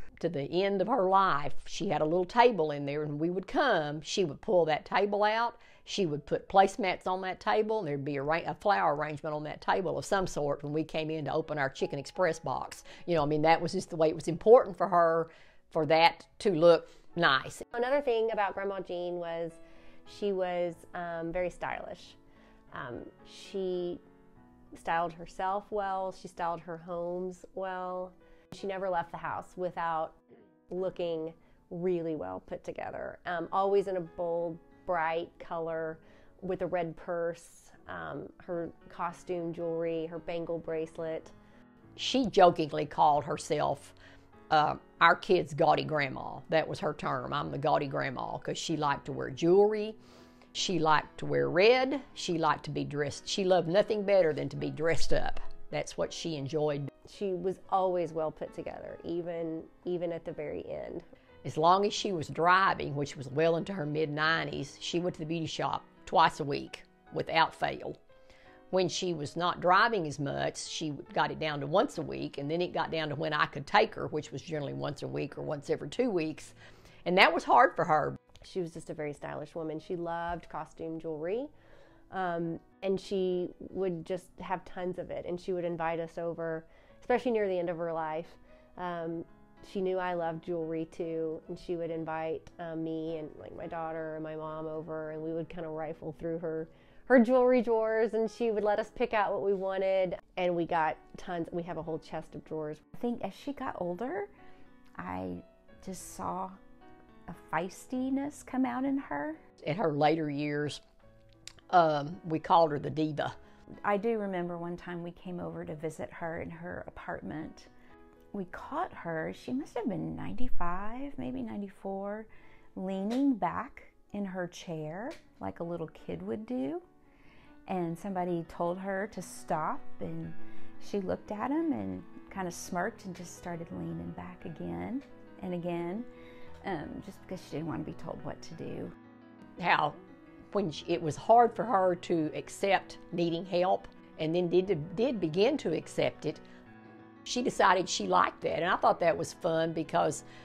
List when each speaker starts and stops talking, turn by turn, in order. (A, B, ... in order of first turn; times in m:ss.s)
0:00.2-0:17.6 A
0:17.7-0:22.2 B
0:22.7-0:24.0 B
0:24.8-0:30.2 B
0:30.7-0:41.3 B
0:42.0-0:44.0 A
0:44.5-0:50.0 A
0:50.5-0:56.9 A
0:57.1-1:01.0 B
1:01.4-1:08.0 A
1:08.7-1:16.5 A
1:17.1-1:18.2 A
1:18.4-1:21.5 B
1:22.1-1:42.8 B
1:43.0-1:44.3 C
1:45.0-1:46.6 C
1:47.3-1:49.4 C
1:49.6-1:50.8 A
1:51.7-1:53.3 A
1:53.9-1:57.7 C
1:58.3-2:06.8 C
2:07.7-2:16.1 C
2:16.6-2:18.9 C
2:19.6-2:20.0 A
2:20.5-2:26.4 A
2:27.2-2:30.2 A